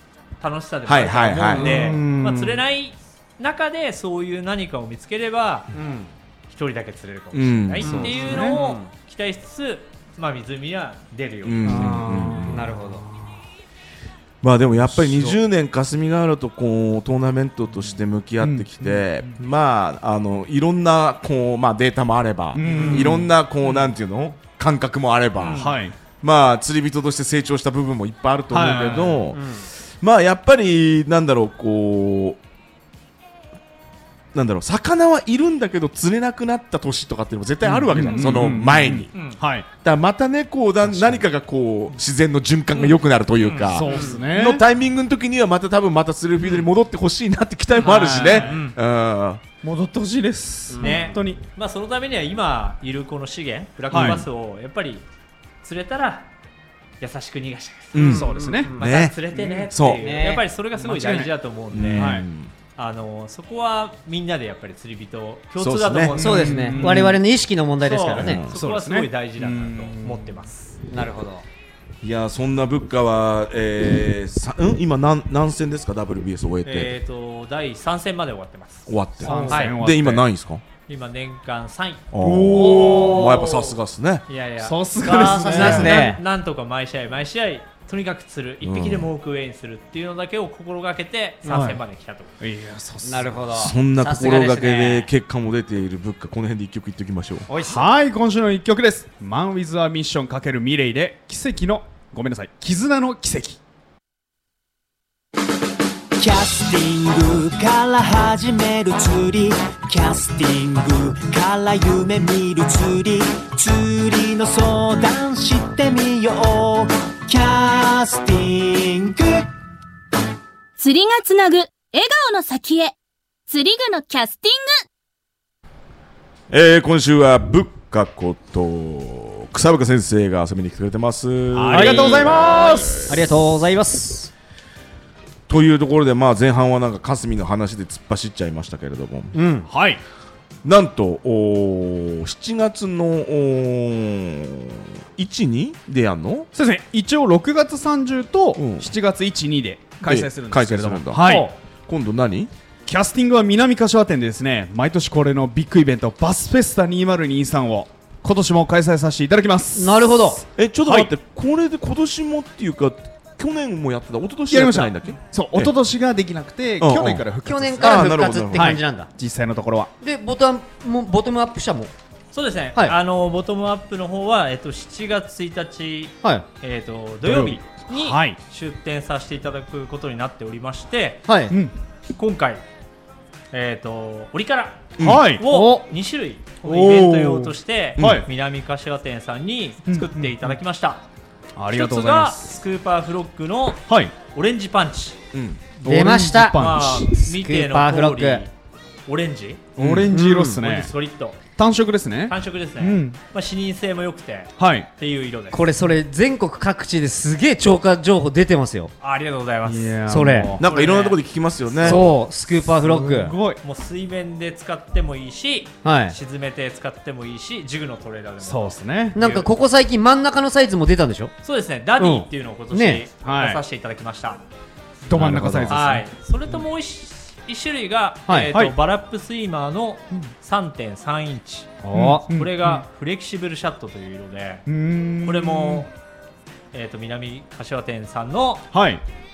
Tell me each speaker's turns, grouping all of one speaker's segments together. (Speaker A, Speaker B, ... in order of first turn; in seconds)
Speaker A: 0.4-5.7, 6.5-11.9, 25.4-25.8, 39.1-39.4, 42.7-44.2, 47.8-48.8, 50.8-55.1, 55.6-56.3, 57.0-62.2, 62.8-67.1, 67.8-70.8, 76.6-79.8, 80.9-82.1, 82.7-83.5, 84.3-92.3, 172.3-181.3, 182.2-182.6, 183.5-191.0, 191.7-195.2, 196.6-198.5, 199.1-199.7, 200.5-201.4, 202.3-205.6, 209.0-210.1, 210.6-211.2, 213.6-219.5, 221.4-224.4, 225.7-231.8, 232.3-234.7, 235.2-235.9, 236.7-238.7
Speaker B: 0.9-1.9, 7.3-8.1, 11.4-12.7, 14.4-32.4, 34.3-39.1, 39.8-49.4, 57.9-59.2, 59.7-60.1, 61.7-62.5, 65.6-66.2, 68.1-68.5, 72.0-76.9, 78.9-80.6, 82.1-84.3, 88.6-89.1, 93.5-97.5, 126.5-133.3, 135.5-139.4, 140.6-146.5, 148.6-148.9, 150.0-152.5, 160.6-165.7, 166.8-167.3, 167.8-168.8, 185.0-185.3, 188.0-188.3, 195.3-195.6, 199.8-200.1, 210.6-212.0, 225.2-225.6
Speaker C: 1.5-2.6, 7.8-8.6, 11.6-13.4, 14.8-15.4, 18.4-19.3, 22.5-23.8, 25.5-25.9, 28.5-29.2, 37.6-39.7, 40.9-41.2, 43.7-44.6, 47.8-48.6, 49.6-51.4, 53.9-54.3, 58.0-58.7, 60.8-61.3, 62.0-62.3, 66.1-67.2, 68.5-70.4, 79.2-80.3, 82.2-83.3, 84.6-86.2, 91.5-91.8, 92.4-93.7, 97.6-103.6, 131.5-133.3, 139.7-140.0, 146.5-151.5, 152.9-161.1, 164.5-169.9, 177.2-178.4, 185.0-185.4, 186.6-188.3, 189.9-190.6, 191.6-192.6, 193.9-194.1, 195.8-197.1, 199.8-200.9, 201.6-203.2, 204.6-204.9, 209.7-210.6, 212.8-213.6, 218.4-219.2, 223.2-223.6, 225.1-226.1, 231.9-232.8, 234.7-235.9, 238.7-239.0
Speaker D: 5.7-6.1, 7.8-8.9, 12.4-13.1, 22.7-23.1, 29.3-29.7, 43.9-44.2, 50.7-51.2, 58.1-58.9, 59.9-60.5, 66.2-68.4, 70.9-71.5, 82.7-83.5, 85.1-86.2, 93.0-95.1, 97.5-97.8, 131.7-134.3, 139.3-139.7, 151.2-151.5, 159.8-160.4, 167.4-169.1, 170.0-171.9, 181.3-181.6, 185.4-185.9, 195.8-198.4, 200.1-200.6, 205.5-208.9, 210.1-210.6, 211.8-213.4, 215.8-216.2, 219.1-221.3, 222.0-223.0, 225.2-225.8, 231.8-232.3
Speaker E: 106.2-119.5
Speaker F: 120.8-123.0, 123.5-124.8